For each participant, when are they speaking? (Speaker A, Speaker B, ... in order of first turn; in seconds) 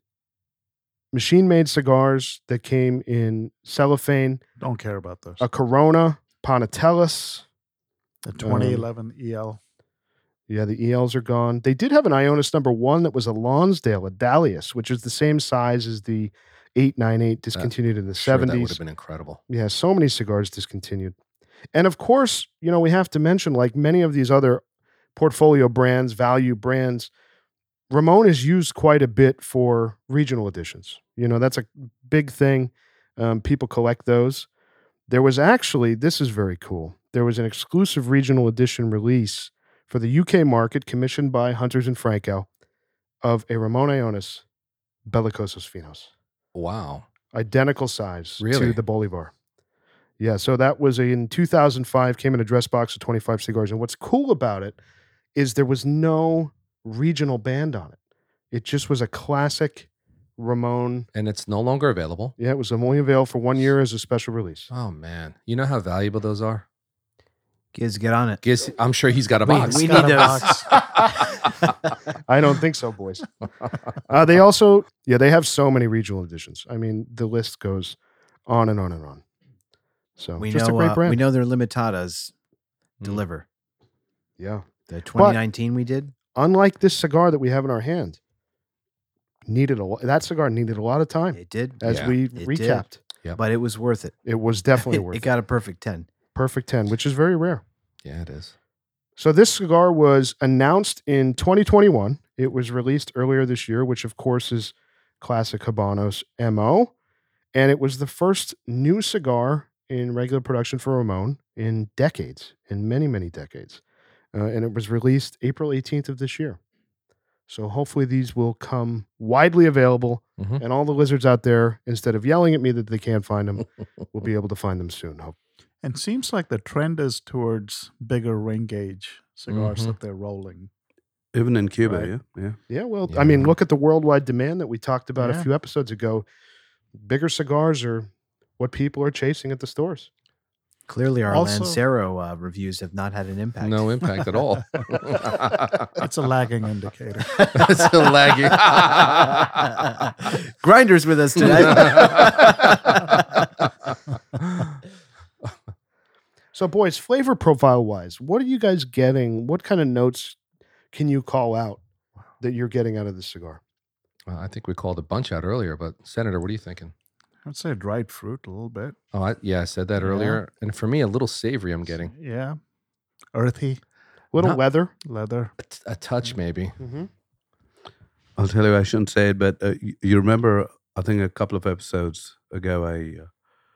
Speaker A: 1.1-4.4, 5.4-7.5, 8.4-8.9, 10.5-18.8, 19.5-21.1, 21.7-24.6, 25.1-27.1, 27.9-34.5, 35.1-42.5, 43.2-44.4, 45.1-46.1, 47.3-49.3, 50.2-54.8, 55.4-58.0, 58.5-61.1, 62.4-64.7, 72.3-73.3, 74.1-79.2, 80.2-81.2, 84.4-85.4, 86.3-88.2, 89.5-93.0, 94.2-95.3, 96.3-97.6, 99.2-106.9, 107.5-113.8, 114.3-116.6, 117.5-125.4, 132.7-136.3, 137.0-140.1, 156.5-160.4, 160.9-161.8, 162.4-163.6, 174.3-174.9, 176.8-177.1
Speaker B: 4.6-5.4, 8.2-9.6, 69.4-70.7, 125.8-130.7, 135.2-135.5, 141.3-141.8, 146.0-147.6, 167.4-169.0, 170.0-170.4, 171.9-172.6, 173.3-173.8, 175.1-175.5
Speaker C: 17.6-19.4, 46.5-47.1, 48.4-48.8, 61.1-62.4, 64.7-66.7, 68.4-71.1, 91.9-92.2, 98.0-98.5, 129.5-129.9, 133.1-133.5, 143.6-145.9, 147.4-149.7, 151.4-153.2, 154.4-154.8, 164.3-166.9, 169.1-172.1, 175.6-176.8
Speaker D: 67.7-68.4, 69.5-71.7, 80.4-82.3, 83.0-83.5, 84.9-86.1, 91.3-94.2, 94.8-96.1, 140.9-144.1, 147.4-147.9, 148.5-153.2
Speaker E: 131.3-132.6, 178.4-183.3